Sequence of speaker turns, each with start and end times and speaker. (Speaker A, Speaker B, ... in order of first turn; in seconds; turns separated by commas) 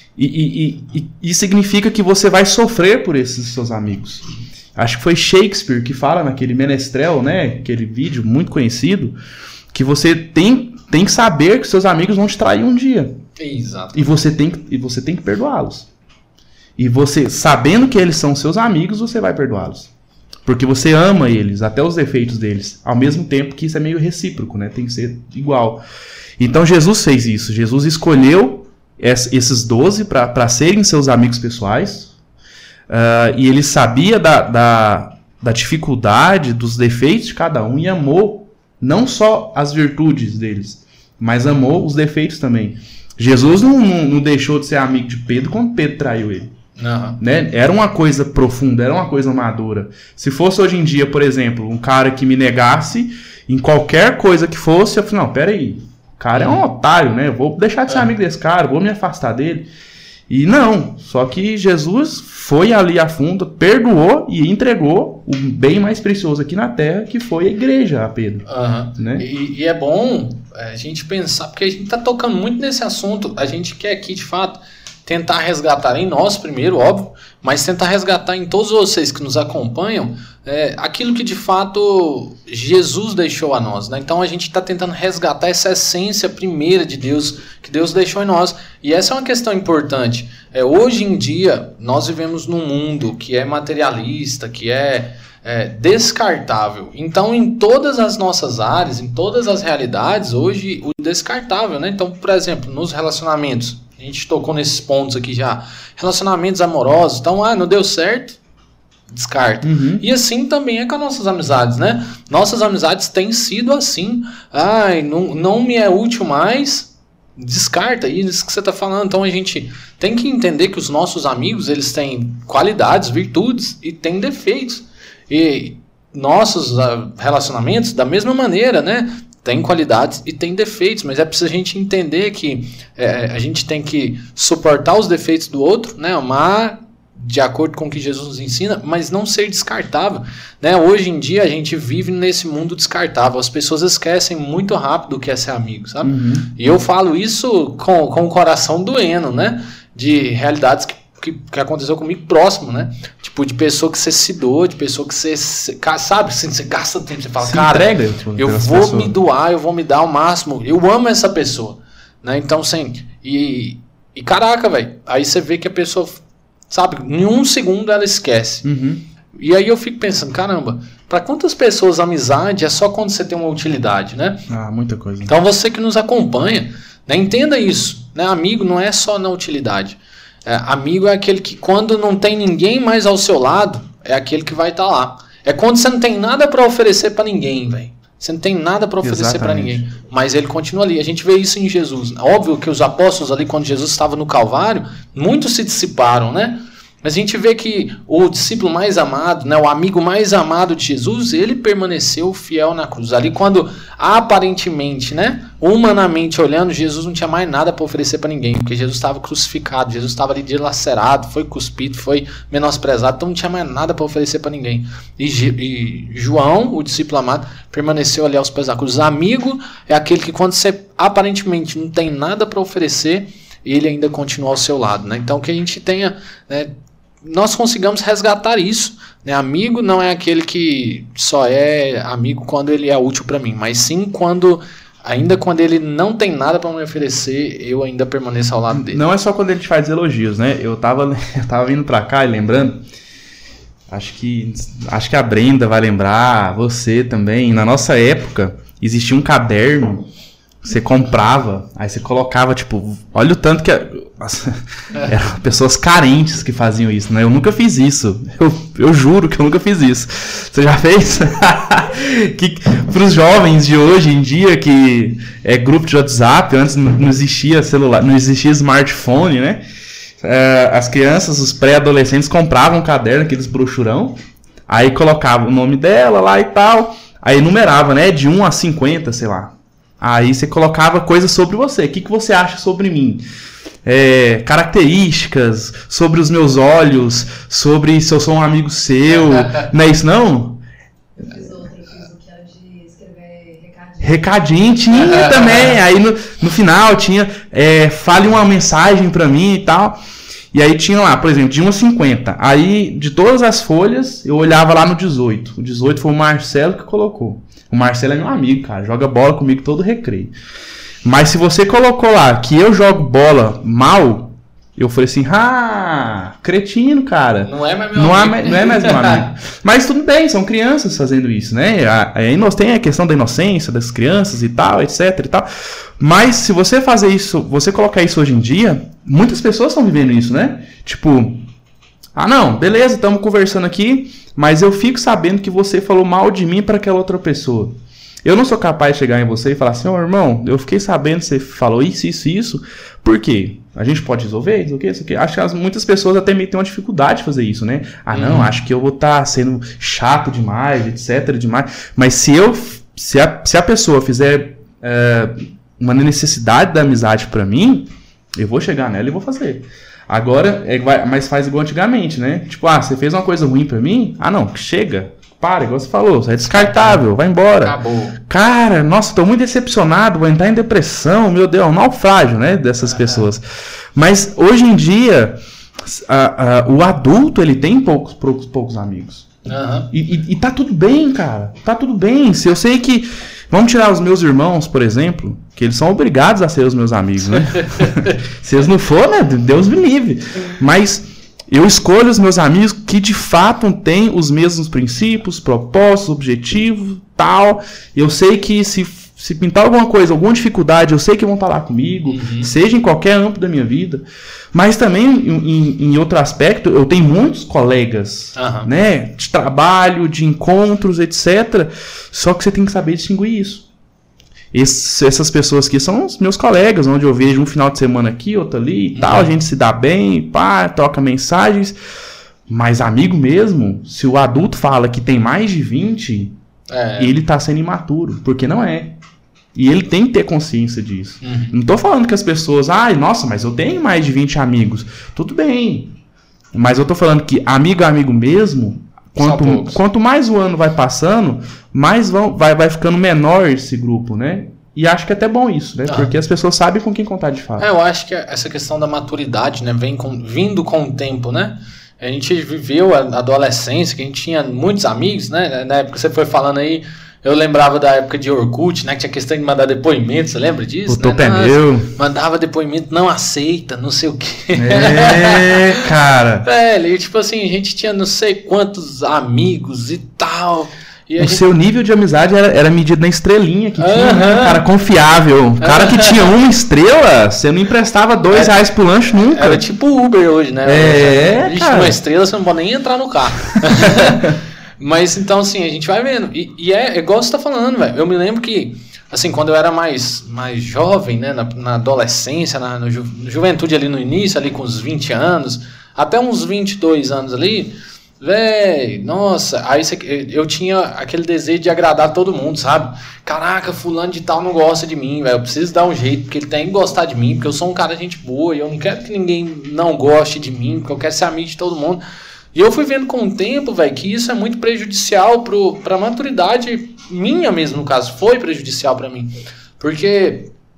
Speaker A: 0.2-4.2, Speaker A: 4.8-9.2, Speaker A: 9.7-13.2, Speaker B: 13.4-14.1, Speaker A: 13.9-15.9, Speaker A: 16.8-19.9, Speaker A: 20.4-25.8, Speaker A: 26.4-32.1, Speaker A: 32.9-46.5, Speaker B: 46.8-47.2, Speaker A: 47.2-59.7, Speaker B: 56.3-56.6, Speaker A: 60.3-68.5, Speaker B: 68.5-108.4, Speaker A: 69.0-69.2, Speaker B: 109.1-168.7, Speaker A: 109.6-110.0, Speaker A: 146.0-146.5, Speaker A: 157.4-159.2, Speaker A: 168.6-169.0, Speaker B: 169.3-174.5, Speaker A: 174.5-175.3, Speaker B: 175.2-239.0, Speaker A: 189.0-189.8, Speaker A: 238.7-242.8, Speaker A: 243.9-250.1, Speaker A: 250.6-269.6, Speaker A: 270.2-283.2, Speaker A: 283.8-290.6, Speaker C: 291.2-294.3, Speaker A: 294.0-300.0, Speaker A: 300.5-310.3, Speaker A: 311.0-325.5, Speaker B: 317.4-319.3, Speaker A: 326.0-331.4, Speaker A: 332.1-373.4, Speaker B: 348.1-348.6, Speaker B: 366.4-367.0, Speaker B: 367.6-368.2, Speaker B: 372.8-373.3, Speaker A: 373.9-379.3, Speaker B: 379.4-379.9, Speaker A: 379.9-413.7, Speaker B: 387.5-388.1, Speaker B: 402.1-402.5, Speaker B: 408.4-408.7, Speaker A: 414.5-421.8, Speaker B: 418.9-419.3, Speaker A: 422.5-426.4, Speaker B: 426.7-427.1, Speaker A: 427.0-429.0, Speaker A: 429.6-435.9, Speaker B: 431.2-431.6, Speaker A: 436.5-447.7, Speaker B: 439.2-439.8, Speaker B: 445.9-446.1, Speaker B: 447.6-465.9, Speaker A: 460.9-461.9, Speaker A: 464.5-466.5, Speaker B: 466.4-471.4, Speaker A: 471.2-479.6, Speaker B: 473.8-474.6, Speaker B: 475.6-476.2, Speaker B: 478.3-478.6, Speaker B: 479.1-512.0, Speaker A: 480.7-482.0, Speaker A: 483.8-484.3, Speaker B: 512.5-520.5